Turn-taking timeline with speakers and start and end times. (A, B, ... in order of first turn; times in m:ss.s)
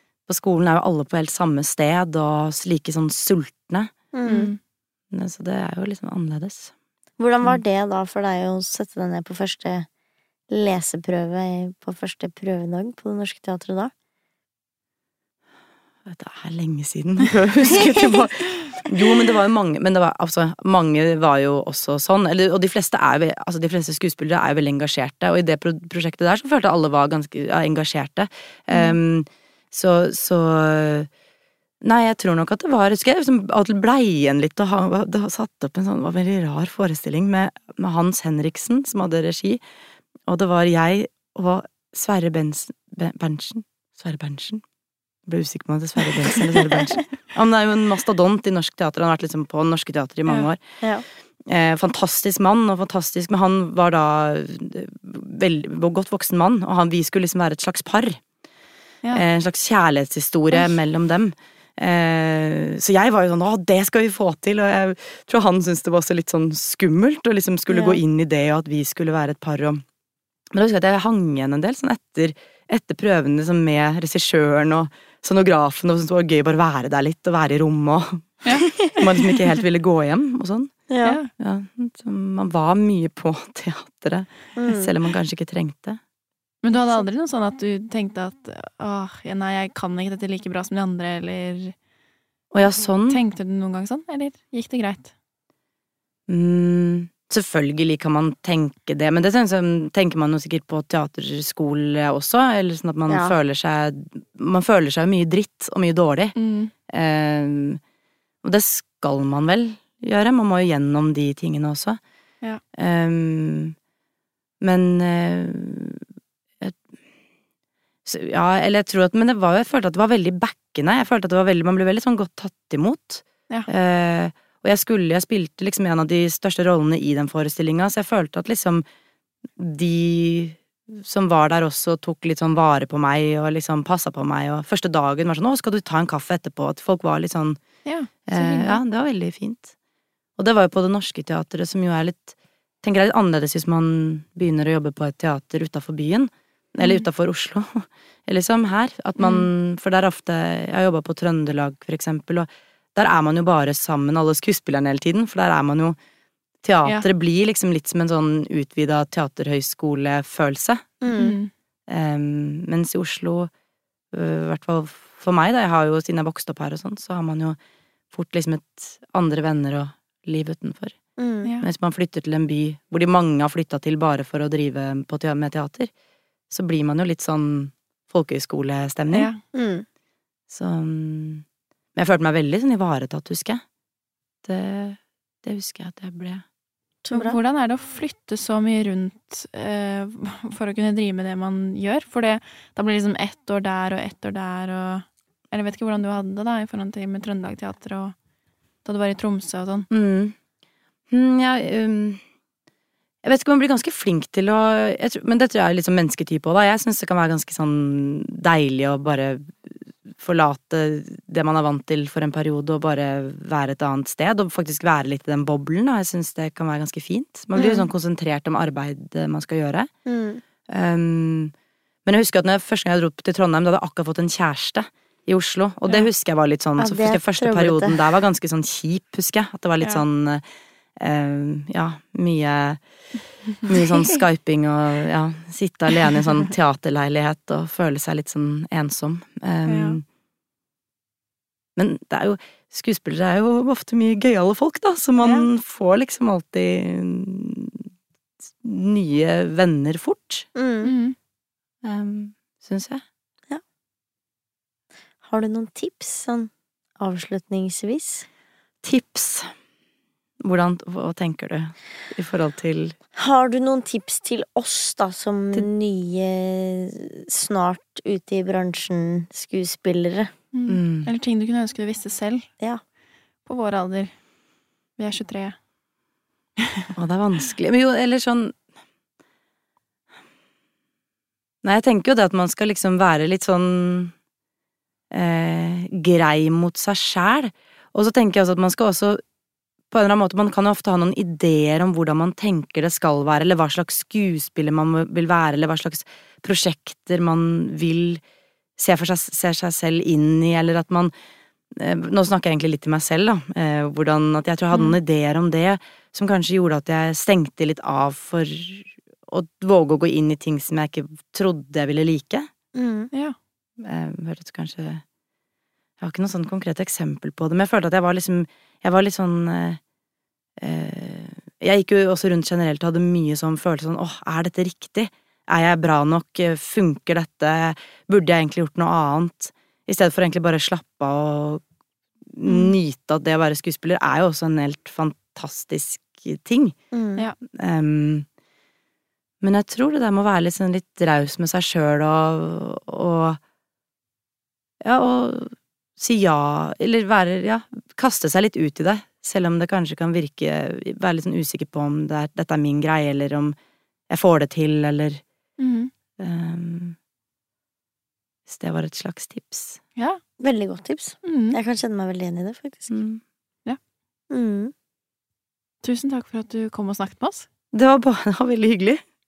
0:00.3-0:03.9 A
0:04.1-0:04.5 B
0:04.2-0:04.6 C
0:05.1-0:06.7 A
0:07.2-0:09.9 B
0:10.5-0:13.9 B
0:16.0-0:31.1 A
0:28.7-0:29.0 C
0:31.8-0:39.6 A
0:40.3-0:44.6 A
0:45.3-0:50.6 A
0:51.4-0:58.2 A
0:59.1-1:09.8 A
1:10.5-1:20.7 A
1:18.4-1:19.6 C
1:20.9-1:21.2 B
1:21.0-1:21.3 C
1:21.4-1:26.0 A
1:24.6-1:24.9 B
1:26.6-1:31.7 C
1:32.5-1:33.2 A
1:33.1-1:35.1 C
1:36.3-1:46.3 A
1:43.1-1:43.3 B
1:46.4-1:46.7 C
1:46.9-1:47.8 A
1:48.4-1:52.0 A
1:52.8-1:53.7 A
1:54.6-1:56.0 A
1:58.0-2:08.8 A
2:09.6-2:17.6 A
2:17.8-2:18.8 C
2:18.2-2:19.7 A
2:20.4-2:36.0 A
2:29.2-2:29.5 C
2:36.6-2:40.9 A
2:41.0-2:41.3 B
2:41.1-2:41.5 C
2:41.9-2:43.5 A
2:44.1-2:47.6 A
2:48.1-2:50.9 A
2:51.2-2:51.5 B
2:51.6-2:55.9 A
2:56.5-2:59.3 A
2:59.1-2:59.4 C
2:59.5-2:59.8 B
3:00.5-3:01.4 A
3:01.9-3:03.6 A
3:04.4-3:06.4 A
3:07.0-3:07.4 B
3:07.1-3:18.1 C
3:18.8-3:19.9 C
3:19.9-3:20.4 A
3:21.1-3:22.2 A
3:23.2-3:39.9 A
3:37.6-3:37.8 B
3:40.0-3:40.4 B
3:40.7-3:41.5 A
3:42.0-3:50.4 A
3:46.8-3:48.0 B
3:51.0-3:52.8 A
3:53.6-4:00.0 A
3:59.7-4:00.0 C
4:01.8-4:07.9 A
4:05.2-4:05.4 B
4:08.6-4:10.5 A
4:10.5-4:10.9 B
4:10.8-4:11.2 C
4:11.8-4:13.0 A
4:15.2-4:18.2 B
4:18.8-4:19.5 A
4:20.4-4:22.9 A
4:23.2-4:30.3 B
4:30.5-4:32.5 C
4:30.7-4:31.1 A
4:33.4-4:34.1 C
4:35.0-4:35.6 C
4:36.6-4:36.9 C
4:36.9-4:38.6 A
4:41.6-4:44.1 A
4:45.1-4:49.2 A
4:49.9-4:58.2 A
4:58.8-5:01.1 A
5:01.7-5:12.5 A
5:04.7-5:05.0 C
5:12.7-5:13.1 B
5:13.8-5:15.0 A
5:16.0-5:19.8 A
5:20.6-5:31.6 A
5:32.3-5:36.8 A
5:32.4-5:32.7 C
5:36.9-5:37.2 B
5:37.5-5:38.2 A
5:39.4-5:43.4 A
5:44.8-5:53.6 A
5:54.1-5:55.2 A
5:55.6-5:55.9 C
5:56.2-5:57.0 A
5:58.5-5:59.8 A
6:00.0-6:00.2 C
6:00.4-6:02.9 B
6:01.2-6:01.6 C
6:02.9-6:03.2 A
6:04.3-6:04.7 B
6:05.8-6:07.5 C
6:07.7-6:09.0 A